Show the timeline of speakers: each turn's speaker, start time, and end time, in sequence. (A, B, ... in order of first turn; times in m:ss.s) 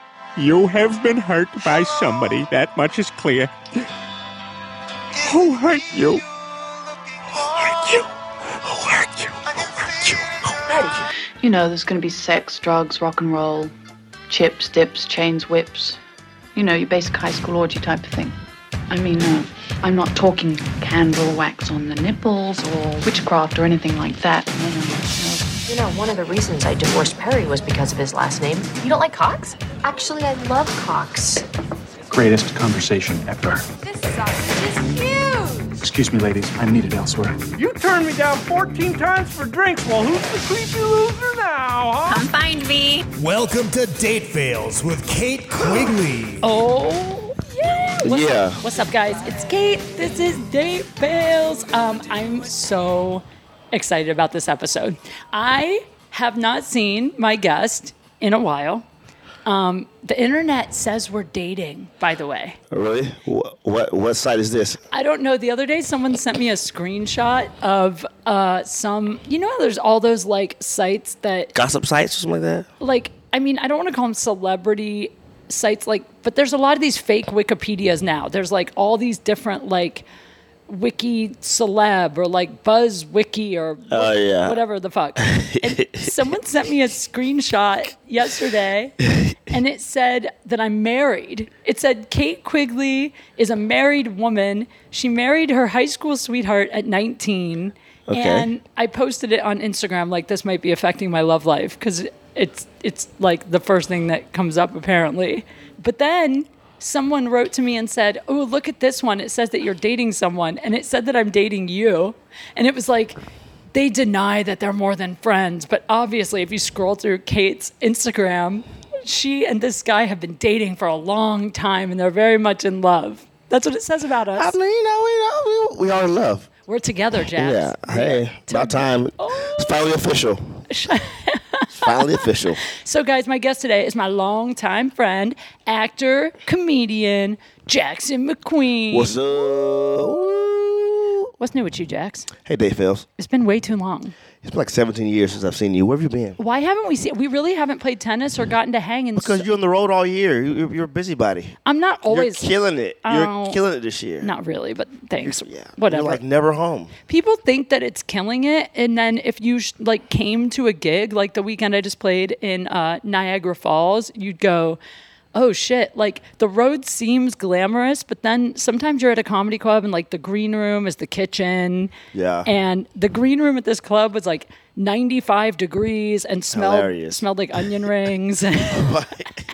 0:00.4-0:03.5 A
0:05.2-0:06.2 A
0:07.4-0:08.1 A
0:08.6-0:11.0 A
0:11.4-0:13.7 B
0:14.3-0:16.0 B
0:16.5-0:18.3 B
0:18.9-0:25.5 B
0:25.7-0:31.4 C
0:32.1-0:33.6 D
0:34.0-0:35.6 C
0:34.4-0:35.6 E
0:35.8-0:37.4 D
0:37.5-0:42.3 F
0:42.2-0:43.0 E
0:43.1-0:46.4 G
0:46.4-0:58.8 H
0:48.0-0:48.6 I
0:59.4-1:02.6 H
1:02.7-1:04.8 I
1:04.9-1:11.5 H
1:11.5-1:12.7 I
1:12.8-1:20.0 H
1:20.7-1:53.2 H
1:23.9-1:24.6 I
1:25.2-1:26.1 I
1:38.1-1:38.5 I
1:53.7-2:04.5 H
2:04.3-2:06.5 I
2:06.7-2:09.8 H
2:07.4-2:10.6 I
2:10.7-2:12.1 H
2:11.7-2:12.6 I
2:12.6-2:19.2 H
2:18.9-2:21.3 I
2:21.4-2:22.3 H
2:22.4-2:23.0 I
2:23.2-2:24.1 H
2:24.4-2:26.4 I
2:26.4-2:29.4 H
2:29.2-2:31.6 I
2:31.6-2:32.5 H
2:32.1-2:34.3 I
2:33.0-2:33.6 H
2:34.2-2:36.2 H
2:35.2-2:36.9 I
2:37.1-2:44.8 H
2:45.3-2:51.9 H
2:52.1-2:52.5 I
2:52.4-2:58.9 H
2:56.5-2:57.2 I
2:58.7-2:59.4 I